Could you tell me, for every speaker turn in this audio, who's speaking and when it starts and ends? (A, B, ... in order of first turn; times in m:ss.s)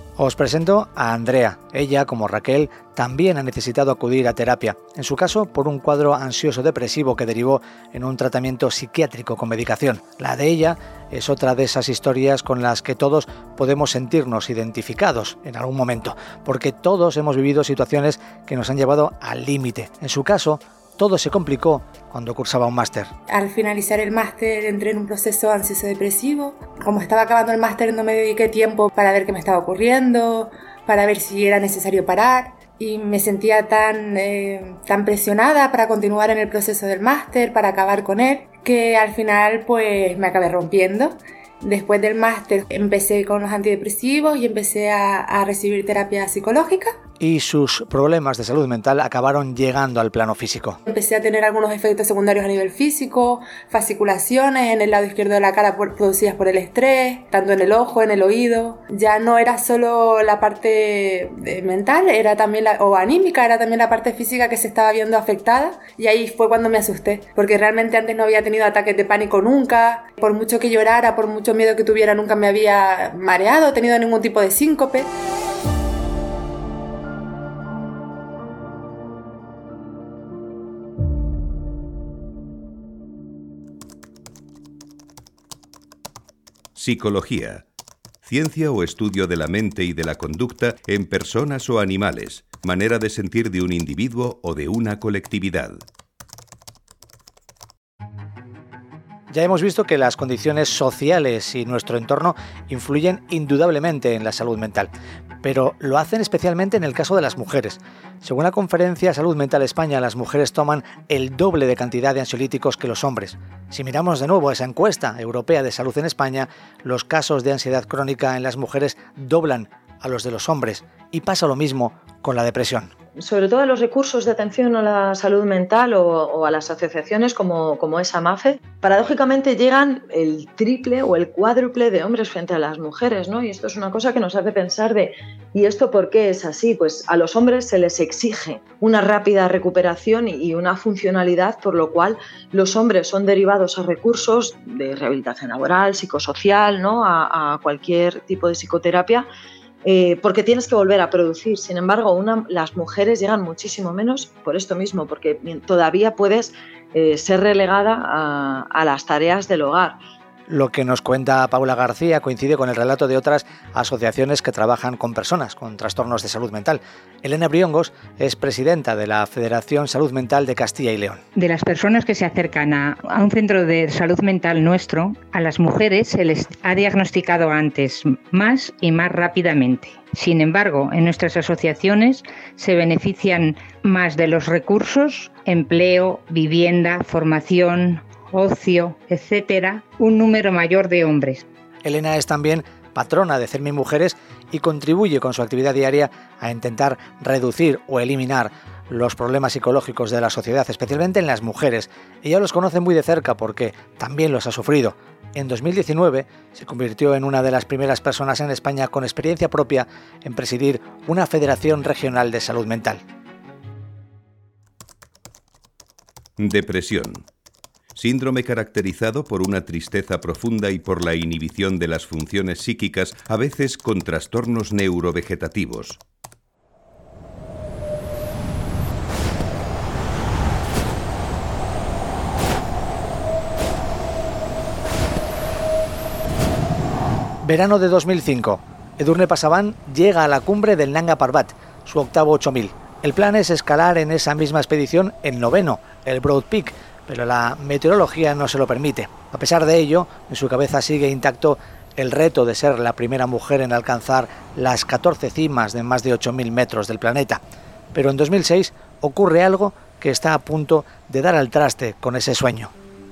0:00.2-0:23.1 A
0:23.3-0:46.9 B
0:47.2-0:50.8 A
0:50.9-1:15.1 B
1:26.8-1:27.6 C
1:28.2-1:35.8 C
1:39.3-1:44.9 A
1:45.4-2:02.9 A
2:03.2-2:29.3 D
2:29.8-2:40.0 D
2:40.5-2:51.2 A
2:51.4-3:11.4 E
3:11.8-3:33.0 A
3:36.4-3:37.3 C
3:38.0-3:46.0 C
3:57.4-4:17.4 A
4:17.9-4:22.7 A